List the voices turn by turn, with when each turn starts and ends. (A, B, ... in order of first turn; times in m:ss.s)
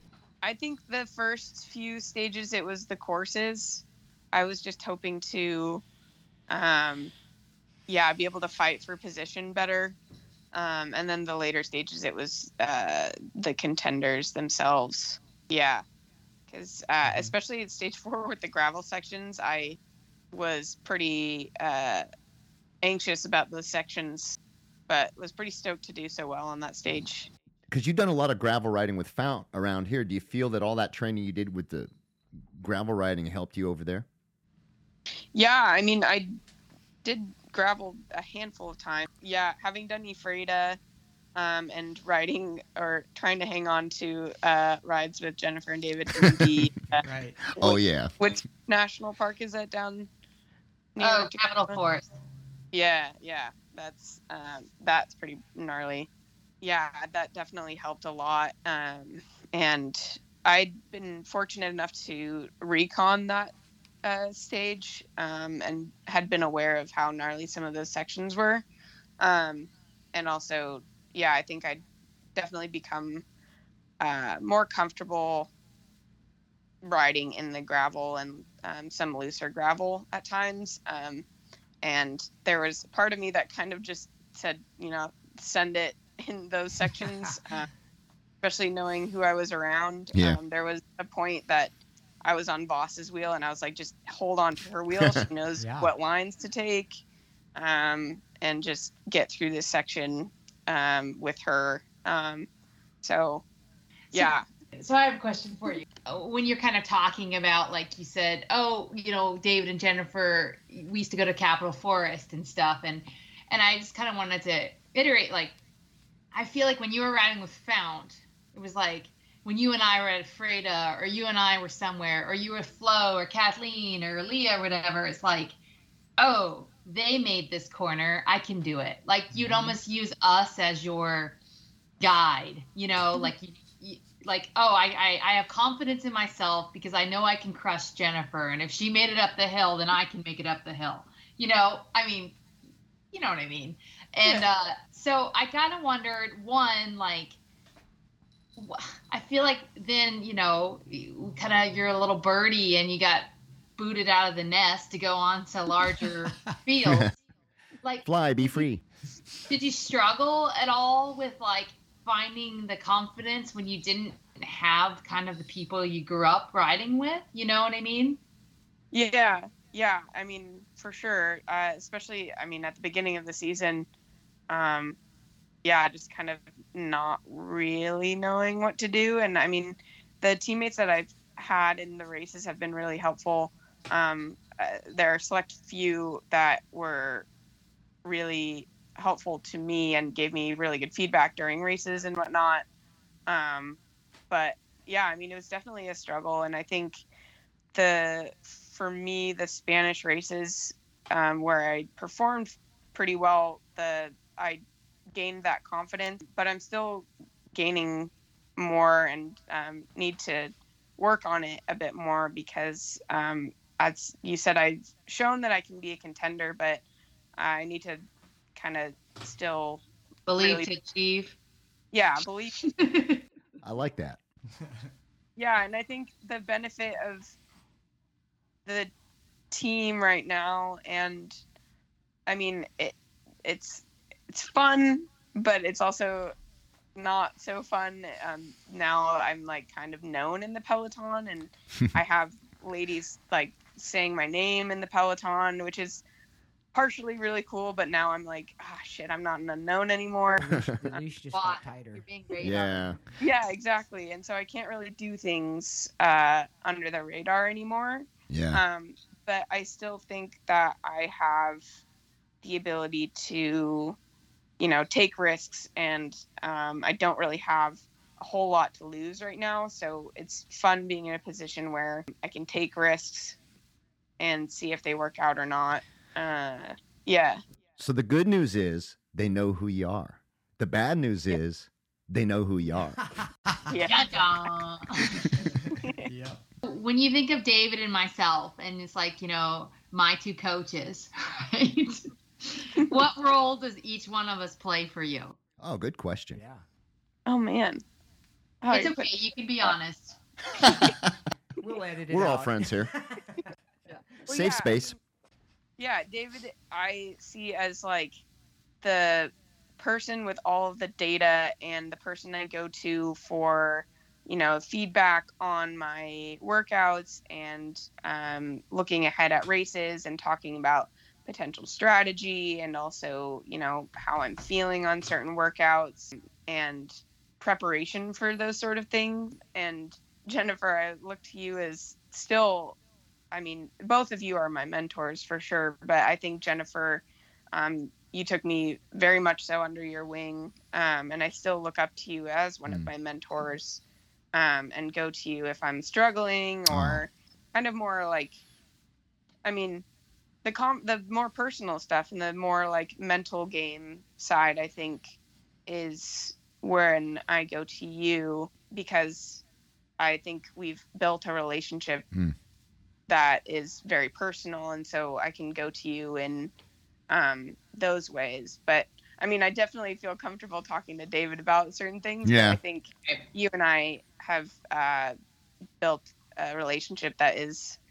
0:00.4-0:05.8 A
0:06.5-0:07.1 A
0:07.9-0:10.0 A
0:10.5-0:15.8 A
0:16.5-0:19.8 A
0:17.0-0:17.3 B
0:20.3-0:22.0 A
0:22.8-0:24.4 A
0:24.9-0:27.3 A
0:27.7-0:31.9 C
0:32.5-0:34.0 C
0:35.3-0:36.3 A
0:37.0-0:40.8 A
0:41.4-0:47.0 A
0:47.0-0:47.4 B
0:47.5-0:48.1 C
0:47.6-0:50.1 A
0:51.0-0:51.8 A
0:51.0-0:52.1 D
0:52.7-0:56.1 A
0:56.6-1:08.6 A
1:09.2-1:11.8 A
1:12.4-1:13.2 A
1:14.0-1:15.5 A
1:16.8-1:21.2 A
1:21.8-1:27.7 A
1:28.4-1:37.0 A
1:30.1-1:30.4 C
1:35.6-1:35.9 B
1:37.6-1:42.5 A
1:43.0-1:43.4 A
1:44.1-1:44.4 A
1:44.1-1:55.6 D
1:56.3-2:05.6 D
2:06.2-2:11.4 D
2:09.3-2:09.8 B
2:12.0-2:22.4 D
2:23.1-2:27.4 D
2:28.6-2:37.2 D
2:36.8-2:37.1 C
2:37.8-2:38.6 D
2:38.0-2:38.8 C
2:39.5-2:48.2 D
2:48.9-2:53.9 A
2:54.5-2:55.0 A
2:55.6-3:07.3 A
3:08.0-3:12.7 A
3:13.3-3:13.8 A
3:14.3-3:17.0 A
3:17.7-3:24.6 A
3:25.1-3:36.8 A
3:37.4-3:38.0 A
3:38.5-3:39.8 A
3:40.3-3:41.4 D
3:40.4-3:40.7 A
3:41.9-3:42.6 A
3:42.6-3:43.2 D
3:43.6-3:44.2 C
3:44.6-3:44.9 B
3:45.4-3:47.3 A
3:48.6-3:48.9 A
3:49.5-3:51.4 A
3:52.3-3:56.3 A
3:57.0-4:06.0 A
4:06.7-4:11.0 A
4:10.3-4:12.0 B
4:11.3-4:13.0 D
4:12.4-4:13.0 C
4:13.2-4:21.6 A
4:18.3-4:18.6 C
4:22.4-4:24.0 A
4:24.6-4:33.4 A
4:34.2-4:37.4 A
4:37.8-4:43.0 C
4:43.0-4:44.0 B
4:43.7-4:44.1 A
4:43.9-4:45.2 D
4:45.4-4:46.4 B
4:45.8-4:46.0 A
4:46.6-4:55.4 D
4:55.6-4:56.4 C
4:56.3-4:56.6 B
4:57.3-4:57.8 A
4:58.6-4:59.1 A
4:58.7-5:00.2 D
5:00.6-5:01.1 C
5:01.6-5:04.0 B
5:02.1-5:02.9 C
5:04.2-5:05.0 C
5:04.3-5:04.9 A
5:05.8-5:08.2 A
5:08.8-5:32.8 A
5:33.3-5:43.8 A
5:44.3-5:48.4 A
5:46.7-5:47.0 C
5:49.4-5:49.8 A
5:50.4-5:55.1 A
5:55.7-5:59.4 A
6:00.0-6:02.0 A
6:03.1-6:06.5 A
6:07.1-6:15.1 A
6:12.2-6:12.6 C
6:15.8-6:17.8 A